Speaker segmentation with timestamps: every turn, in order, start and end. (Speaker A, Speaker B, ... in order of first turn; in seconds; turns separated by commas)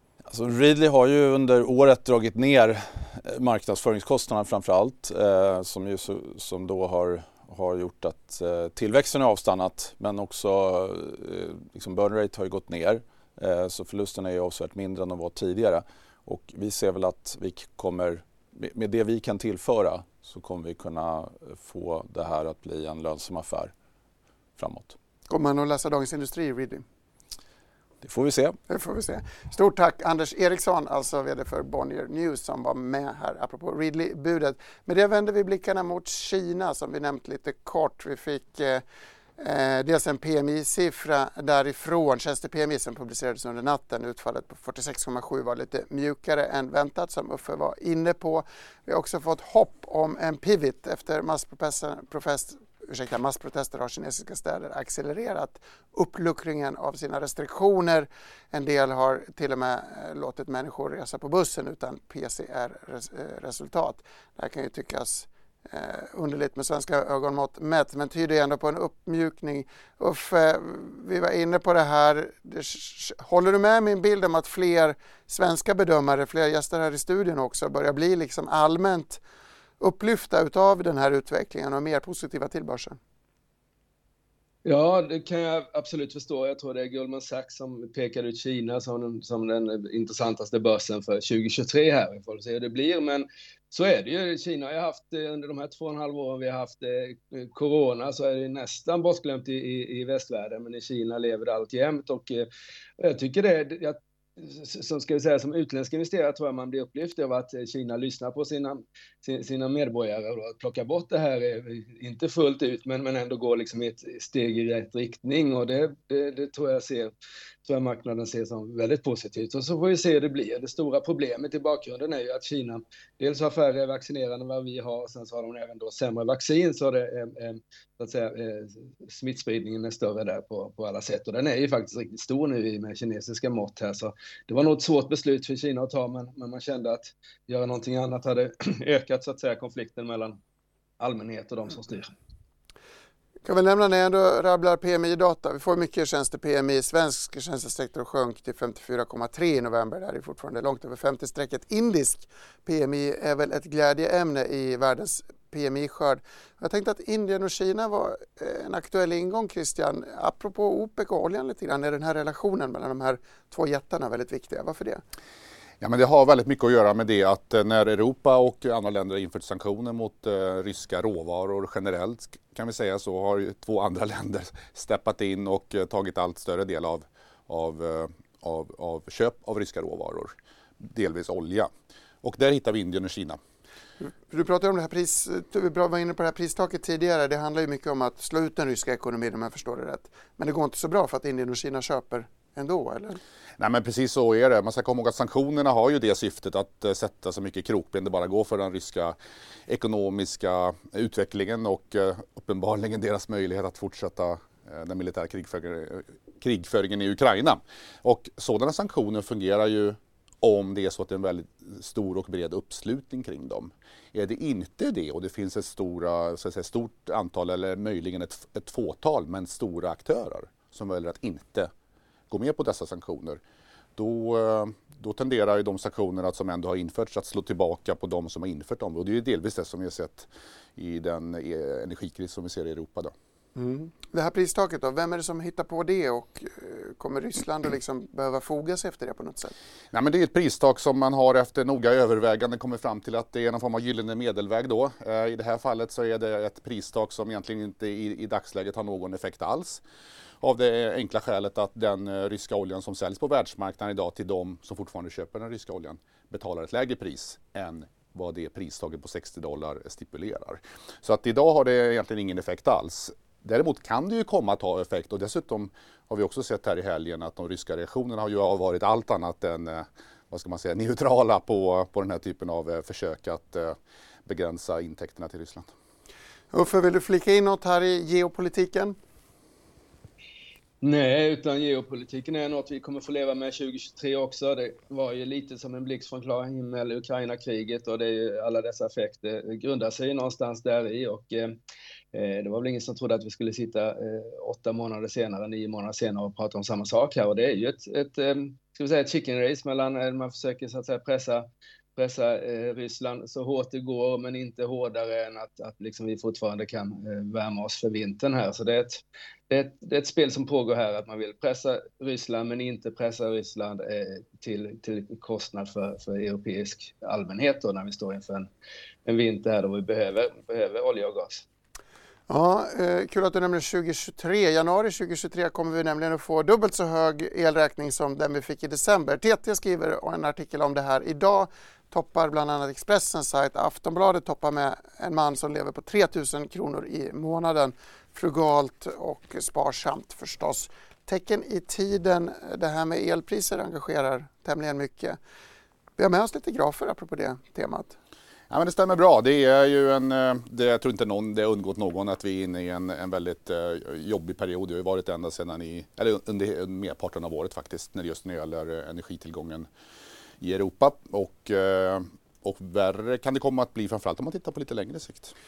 Speaker A: 0.3-23.7, Speaker A: 24.6-25.0, Speaker B: 25.3-26.8, Speaker A: 28.0-28.6, Speaker B: 28.7-38.8, Speaker B: 39.4-79.2, Speaker B: 79.8-83.0, Speaker C: 84.7-102.5, Speaker C: 103.0-117.1, Speaker C: 117.7-140.4, Speaker C: 141.0-142.1, Speaker B: 143.4-165.0, Speaker D: 165.8-181.7, Speaker D: 182.2-183.4, Speaker B: 184.0-193.2, Speaker D: 193.6-199.2, Speaker D: 199.7-221.7, Speaker D: 222.3-223.4, Speaker D: 224.0-233.1, Speaker B: 233.6-239.5, Speaker D: 239.9-249.8, Speaker D: 250.4-275.7, Speaker B: 276.5-279.0, Speaker C: 280.8-291.6, Speaker C: 292.1-318.5, Speaker C: 319.1-321.5, Speaker B: 322.3-345.2, Speaker B: 346.0-348.0, Speaker D: 348.5-359.7, Speaker D: 360.4-365.4